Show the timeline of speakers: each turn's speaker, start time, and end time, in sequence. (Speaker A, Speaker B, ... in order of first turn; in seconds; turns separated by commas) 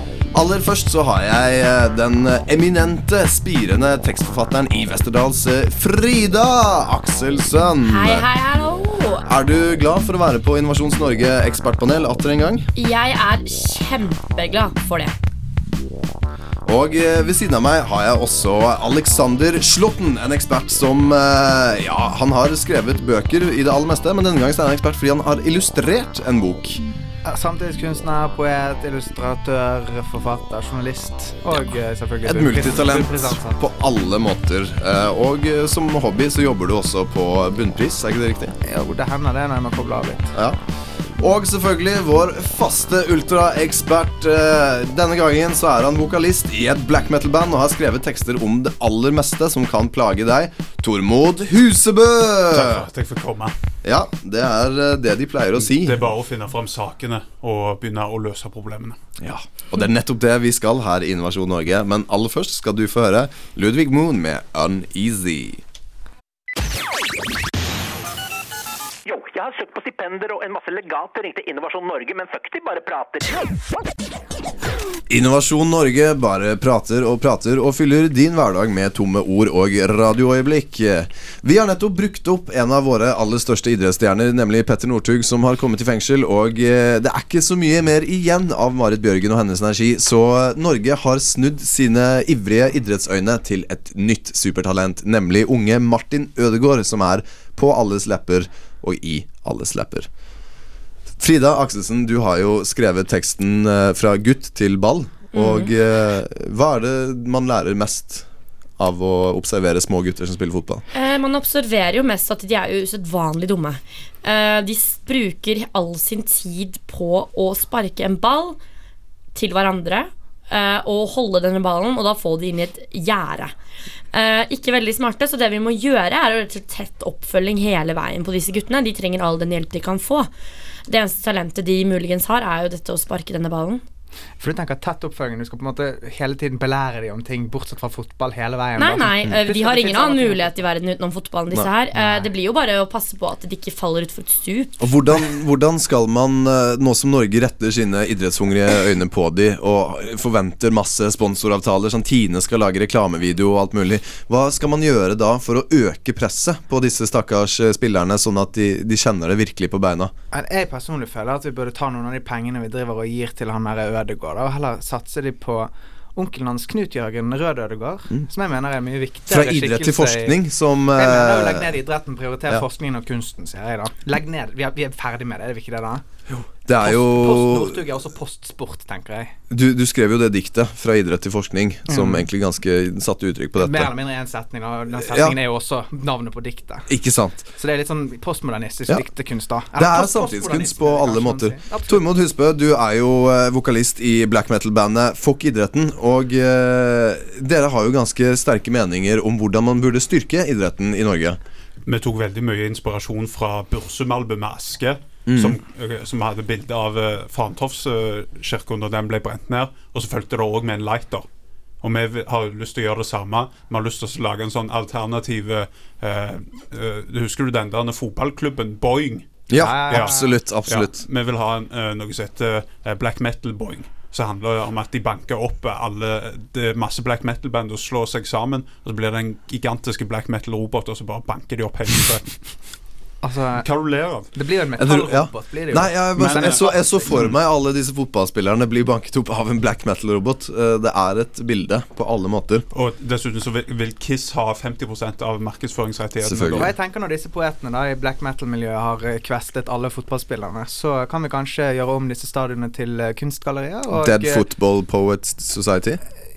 Speaker A: 0.3-8.3, Speaker B: 7.8-9.3, Speaker A: 9.2-12.7, Speaker B: 12.8-15.1, Speaker A: 16.6-26.8, Speaker C: 27.2-33.6, Speaker A: 32.2-38.6, Speaker C: 38.6-40.3, Speaker A: 40.3-40.6, Speaker A: 41.2-52.9, Speaker D: 52.5-53.5, Speaker A: 53.8-56.1, Speaker D: 55.6-59.0, Speaker A: 59.2-65.6, Speaker E: 69.0-73.5, Speaker A: 75.1-100.1, Speaker A: 101.2-108.3, Speaker B: 105.3-105.7, Speaker A: 108.8-110.8, Speaker B: 110.9-118.6, Speaker B: 119.3-123.5, Speaker B: 124.1-130.3, Speaker B: 130.9-133.8, Speaker C: 134.4-140.5, Speaker B: 138.8-144.8, Speaker C: 141.9-142.3, Speaker A: 144.8-160.1, Speaker C: 160.3-170.3, Speaker A: 169.3-171.7, Speaker C: 170.9-176.1, Speaker A: 176.3-177.8, Speaker C: 176.8-179.3, Speaker A: 179.5-183.9, Speaker C: 181.9-182.3, Speaker C: 183.6-186.9, Speaker A: 185.0-185.4, Speaker A: 186.9-187.5, Speaker C: 187.6-192.0, Speaker A: 189.8-201.4, Speaker D: 201.9-211.3, Speaker A: 205.3-205.6, Speaker D: 211.8-219.3, Speaker A: 219.5-221.0, Speaker C: 219.5-220.3, Speaker D: 219.9-220.2, Speaker D: 220.7-232.4, Speaker C: 233.2-233.7, Speaker D: 233.6-234.3, Speaker C: 234.3-237.2, Speaker A: 234.8-242.7, Speaker D: 236.2-237.3, Speaker D: 242.7-246.7, Speaker A: 246.2-246.7, Speaker C: 246.6-254.4, Speaker A: 253.9-256.0